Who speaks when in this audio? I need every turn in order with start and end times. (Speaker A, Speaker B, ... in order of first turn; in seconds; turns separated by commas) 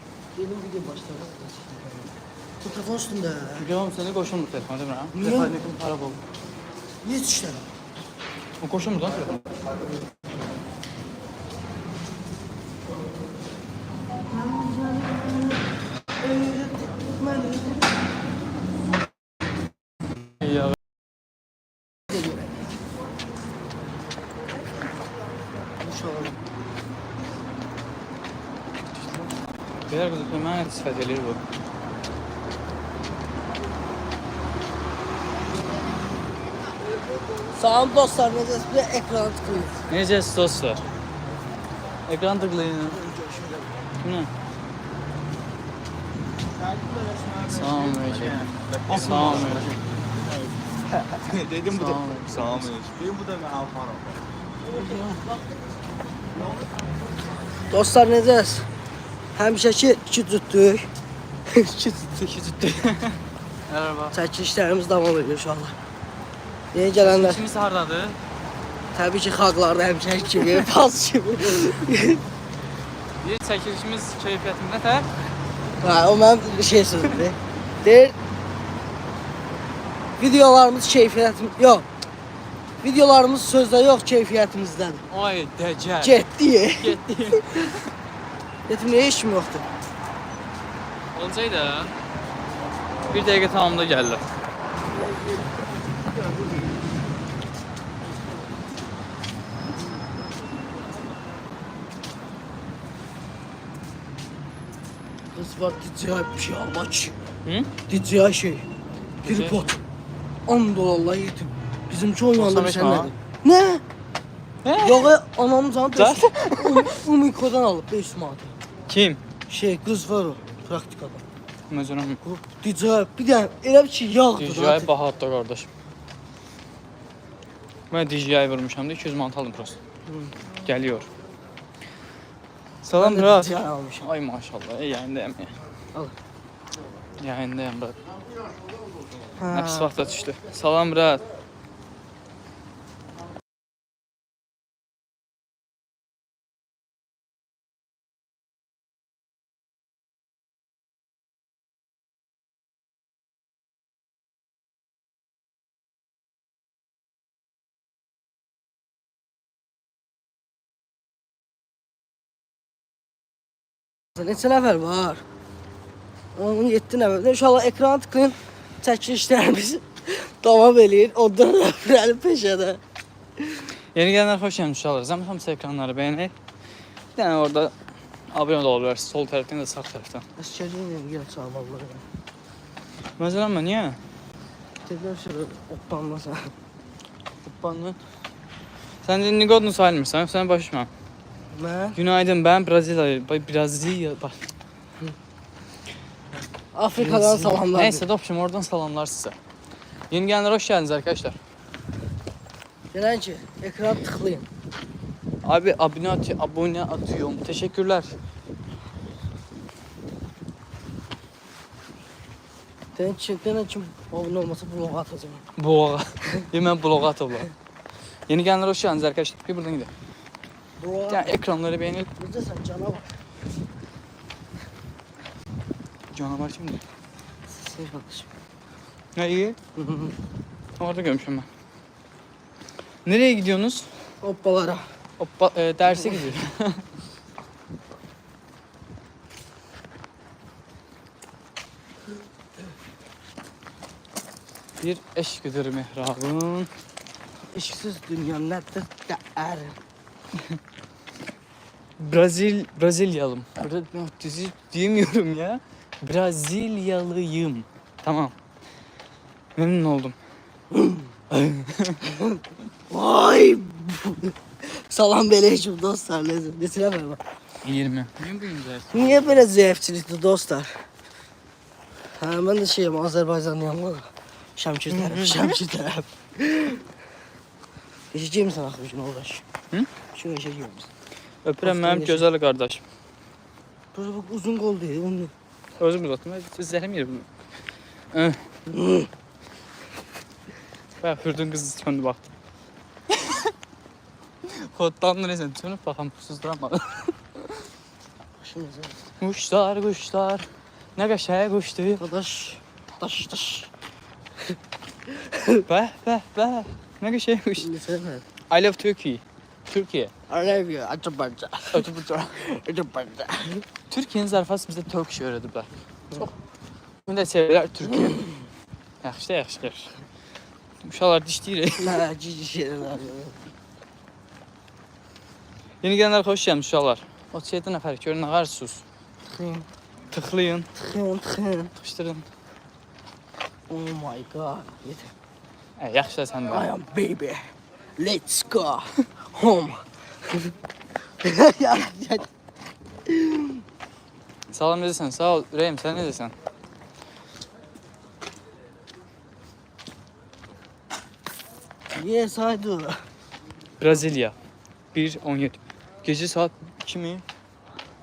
Speaker A: 0.3-3.7, Speaker B: 3.6-6.2, Speaker A: 5.1-5.7, Speaker A: 7.0-7.7, Speaker B: 8.6-9.5, Speaker A: 14.3-15.7, Speaker A: 16.2-17.8, Speaker B: 20.4-20.8, Speaker A: 22.1-22.5, Speaker A: 25.8-26.4, Speaker B: 29.0-29.3, Speaker B: 29.9-31.4, Speaker A: 37.5-39.9, Speaker B: 39.9-40.8, Speaker B: 42.1-43.0, Speaker A: 42.9-43.7, Speaker B: 44.0-44.3, Speaker B: 47.5-49.7, Speaker C: 48.9-49.6, Speaker B: 51.3-52.9, Speaker C: 52.8-54.0, Speaker A: 54.8-55.2, Speaker A: 57.7-58.7, Speaker A: 59.4-60.9, Speaker A: 61.5-62.8, Speaker B: 62.1-64.2, Speaker A: 64.1-65.8, Speaker A: 66.7-67.4, Speaker B: 67.0-68.2, Speaker A: 68.9-72.2, Speaker B: 73.2-75.1, Speaker A: 75.8-78.2, Speaker A: 80.2-81.9, Speaker A: 82.8-85.0, Speaker B: 85.1-87.9, Speaker A: 86.0-87.0, Speaker A: 88.7-89.7, Speaker B: 91.2-91.9, Speaker B: 93.1-94.2, Speaker A: 105.3-107.2, Speaker B: 107.5-107.7, Speaker A: 107.9-108.7, Speaker B: 109.2-109.7, Speaker A: 109.2-109.8, Speaker A: 110.5-113.8, Speaker B: 112.4-113.1, Speaker B: 114.7-115.1, Speaker A: 114.8-118.5, Speaker B: 116.0-117.0, Speaker B: 118.9-119.2, Speaker A: 119.5-121.2, Speaker B: 121.7-122.2, Speaker A: 122.2-124.9, Speaker B: 124.4-125.7, Speaker B: 127.9-129.8, Speaker A: 130.1-130.3, Speaker B: 130.6-131.1, Speaker B: 132.8-135.5, Speaker A: 133.0-134.1, Speaker B: 137.2-138.0, Speaker A: 139.4-139.9, Speaker B: 139.5-141.2, Speaker A: 164.2-165.2, Speaker A: 166.3-172.8, Speaker A: 173.4-173.7, Speaker B: 173.9-176.3, Speaker B: 177.2-177.7, Speaker B: 178.3-180.2, Speaker A: 180.4-182.1, Speaker B: 183.2-184.0, Speaker A: 184.8-186.5, Speaker B: 187.4-188.0, Speaker B: 189.0-190.9, Speaker A: 191.5-192.0, Speaker B: 192.0-194.5, Speaker A: 196.8-198.1, Speaker B: 197.0-199.3, Speaker B: 200.1-201.4, Speaker A: 202.9-204.5, Speaker B: 205.4-208.1, Speaker A: 213.0-215.4, Speaker B: 215.6-217.5, Speaker B: 218.3-219.9, Speaker A: 220.8-221.4, Speaker B: 221.1-222.1, Speaker A: 222.2-223.1, Speaker B: 226.1-226.8, Speaker A: 227.5-228.3, Speaker B: 229.2-229.6, Speaker A: 229.8-230.2, Speaker B: 230.8-231.5, Speaker B: 233.1-233.9, Speaker A: 234.2-234.9, Speaker B: 235.2-236.8, Speaker B: 244.8-246.7, Speaker A: 247.5-249.8, Speaker B: 252.0-258.3, Speaker B: 259.6-260.2, Speaker A: 260.7-261.1, Speaker B: 261.3-262.0, Speaker A: 262.1-267.2, Speaker B: 267.6-269.4, Speaker A: 268.9-270.8, Speaker A: 272.2-276.9, Speaker B: 274.9-275.6, Speaker A: 278.1-279.5, Speaker A: 280.1-280.9, Speaker B: 281.4-282.8, Speaker A: 281.6-282.3, Speaker A: 283.9-285.3, Speaker B: 285.8-287.3, Speaker B: 288.1-288.4, Speaker A: 288.7-289.1, Speaker B: 291.0-292.3, Speaker B: 293.1-293.5, Speaker B: 294.4-297.6, Speaker A: 298.4-299.1, Speaker B: 299.2-302.0, Speaker A: 302.0-303.7, Speaker A: 305.1-305.7, Speaker B: 305.7-307.7, Speaker A: 307.6-308.2, Speaker B: 308.5-310.1, Speaker A: 310.3-313.6, Speaker B: 311.7-312.4, Speaker B: 313.9-315.7, Speaker B: 317.1-318.2, Speaker A: 317.9-318.3, Speaker B: 319.0-319.9, Speaker B: 320.8-322.0, Speaker A: 321.8-323.4, Speaker B: 325.8-328.8, Speaker A: 329.3-329.7, Speaker B: 330.1-330.7, Speaker A: 330.8-331.7, Speaker B: 331.8-332.3, Speaker A: 333.7-335.1, Speaker B: 335.8-336.7, Speaker A: 336.5-340.5, Speaker A: 341.2-342.3, Speaker A: 343.1-343.6, Speaker B: 344.5-346.3, Speaker A: 351.9-353.1, Speaker B: 353.8-354.4, Speaker B: 354.9-357.2